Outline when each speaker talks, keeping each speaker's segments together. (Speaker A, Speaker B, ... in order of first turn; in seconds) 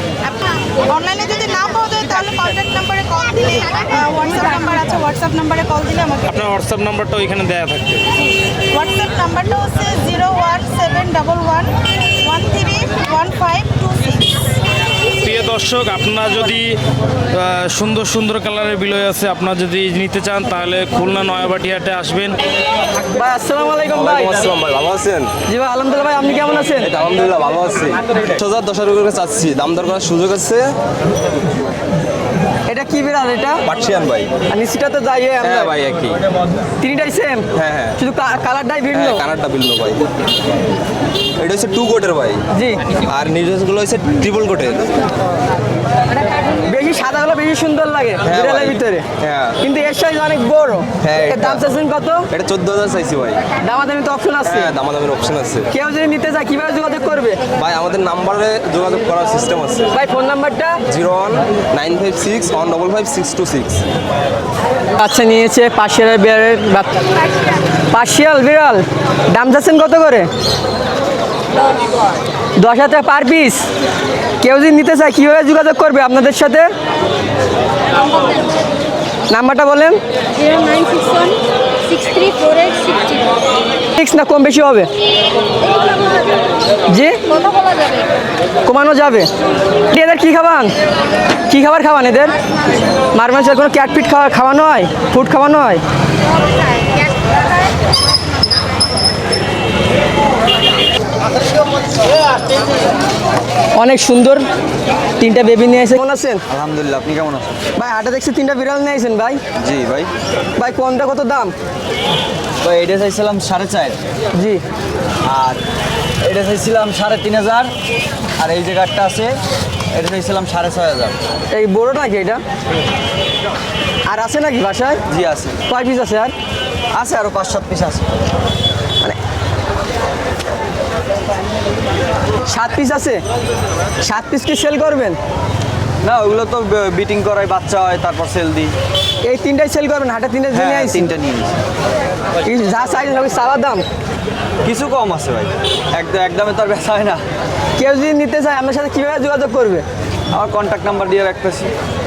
Speaker A: 0.2-6.3, 8.7-14.4
Speaker B: 6.3-8.1, 15.2-16.8, 17.3-22.4
Speaker C: 23.0-24.5, 25.5-26.9, 32.7-33.6, 34.5-35.8, 36.8-37.5, 38.0-39.2, 42.5-42.8, 46.6-49.0, 49.6-52.3, 53.6-54.7, 55.7-57.4, 59.9-60.8, 65.0-66.9, 67.9-70.3, 72.6-73.7, 74.4-76.7, 79.3-80.0, 84.0-84.9, 86.9-87.2, 88.7-89.3, 89.9-90.7, 91.5-92.3, 93.1-95.8, 103.8-104.5, 105.2-106.4, 107.8-109.4, 110.6-111.5, 114.3-114.6, 121.5-122.4, 124.1-125.0, 125.7-126.3, 132.5-133.2, 134.0-135.2, 139.2-141.1, 142.4-143.8, 147.8-149.8
Speaker D: 23.9-25.3, 26.8-30.7, 33.7-34.3, 35.4-36.2, 37.6-38.0, 38.9-40.0, 41.4-42.4, 43.1-44.9, 48.2-49.6, 51.0-51.7, 52.3-53.4, 54.5-55.7, 57.6-59.9, 60.9-63.8
Speaker E: 106.5-107.6, 109.6-110.1, 112.6-114.0, 115.3-115.6, 116.2-117.7, 118.4-119.4, 119.9-121.2, 125.1-125.6, 126.9-128.1, 136.0-138.8, 140.5-141.6, 144.6-147.2, 150.3-151.7